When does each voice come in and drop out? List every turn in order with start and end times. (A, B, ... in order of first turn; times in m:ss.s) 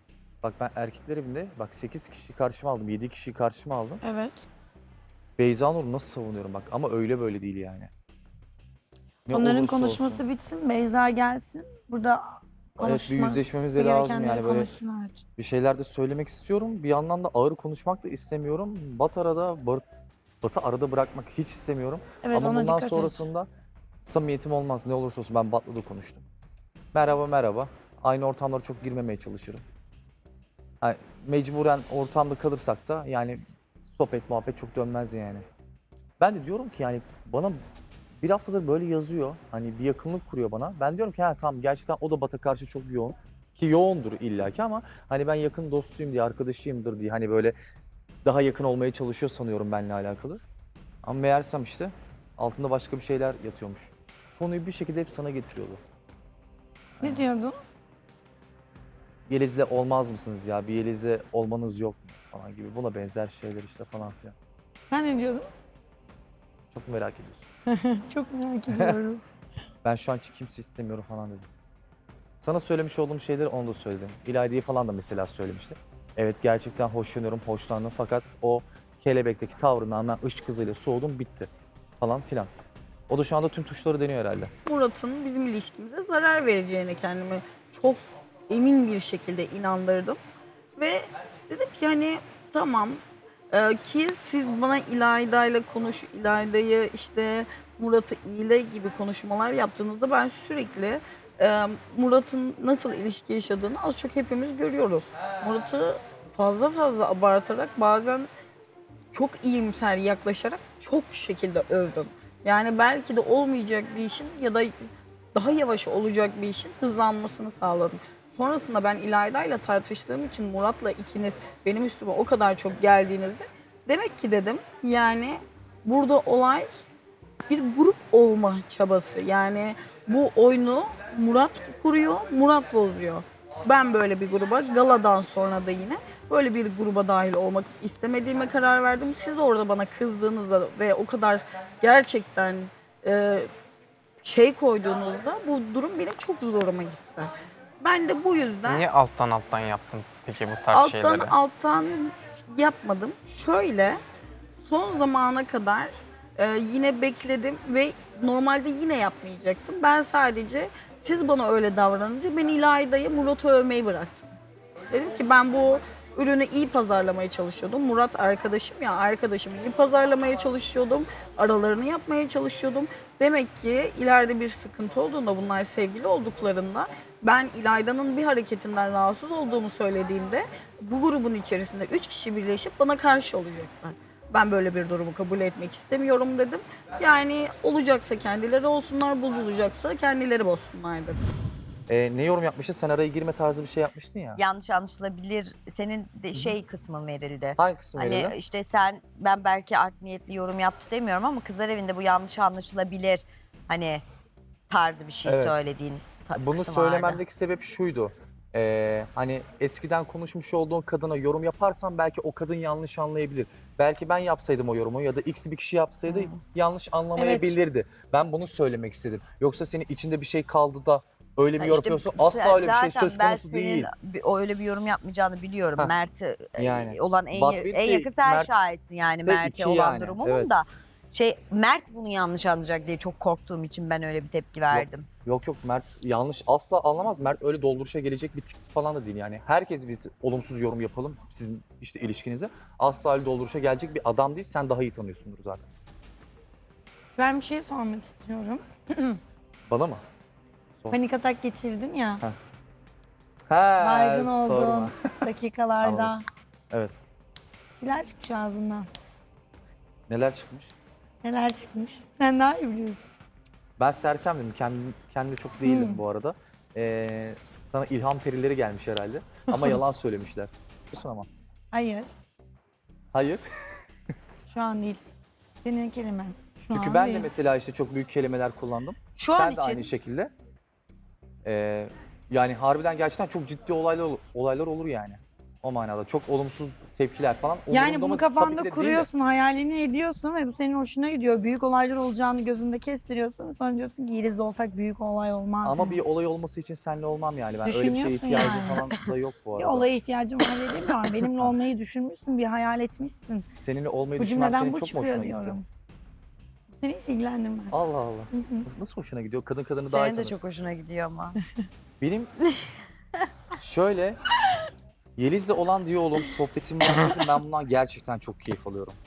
0:00.4-0:04.0 A
0:04.0-0:04.4 B
0:05.4-0:07.9 A
0:09.3-0:10.2 A
0:09.3-0:15.2 B
0:12.8-0:14.7 A
0:15.4-0:19.8 A
0:20.4-0:23.5 A
0:22.2-0:23.2 B
0:24.0-0:26.2 A
0:26.9-0:29.6 A
0:30.8-0:35.4 A
0:36.2-0:37.6 A
0:38.2-0:47.5 A
0:48.2-0:50.4 A
0:51.0-0:55.8 A
0:57.0-0:57.2 A
0:57.0-0:57.6 B
0:59.3-1:04.4 A
1:04.9-1:05.5 B
1:06.7-1:07.5 A
1:07.8-1:09.2 B
1:09.8-1:11.5 A
1:12.4-1:22.5 A
1:23.1-1:24.5 A
1:24.6-1:30.2 C
1:30.8-1:48.3 C
1:49.1-2:06.7 C
2:07.5-2:23.5 C
2:24.2-2:28.9 C
2:28.7-2:31.3 D
2:30.7-2:34.0 C
2:34.6-2:44.3 C
2:44.9-3:11.2 C
3:11.9-3:14.4 A
3:14.3-3:24.0 E
3:17.6-3:18.4 A
3:24.7-3:27.2 E
3:25.2-3:25.5 A
3:26.3-3:43.9 A
3:36.1-3:36.4 E
3:37.2-3:37.5 B
3:41.6-3:55.1 E
3:46.6-3:48.5 A
3:49.2-3:50.6 A
3:54.7-4:05.7 A
4:07.2-4:09.2 B
4:09.7-4:10.0 A
4:10.9-4:12.2 B
4:13.5-4:15.1 A
4:13.8-4:16.2 B
4:15.8-4:16.1 A
4:16.7-4:17.0 A
4:17.7-4:18.9 B
4:20.1-4:20.7 A
4:21.2-4:23.1 B
4:23.8-4:31.3 A
4:25.6-4:26.0 B
4:31.7-4:32.1 B
4:33.1-4:33.4 A
4:34.5-4:35.0 B
4:35.6-4:37.3 B
4:36.7-4:40.3 A
4:39.2-4:39.9 E
4:41.4-4:49.1 A
4:47.7-4:56.0 B
4:55.6-4:59.9 A
4:57.6-4:58.9 B
4:59.6-5:03.4 B
5:03.6-5:05.6 A
5:04.2-5:05.6 B
5:06.8-5:07.8 B
5:07.7-5:10.4 A
5:08.3-5:08.6 B
5:09.8-5:11.4 E
5:12.0-5:12.3 A
5:13.6-5:14.2 A
5:15.2-5:19.0 A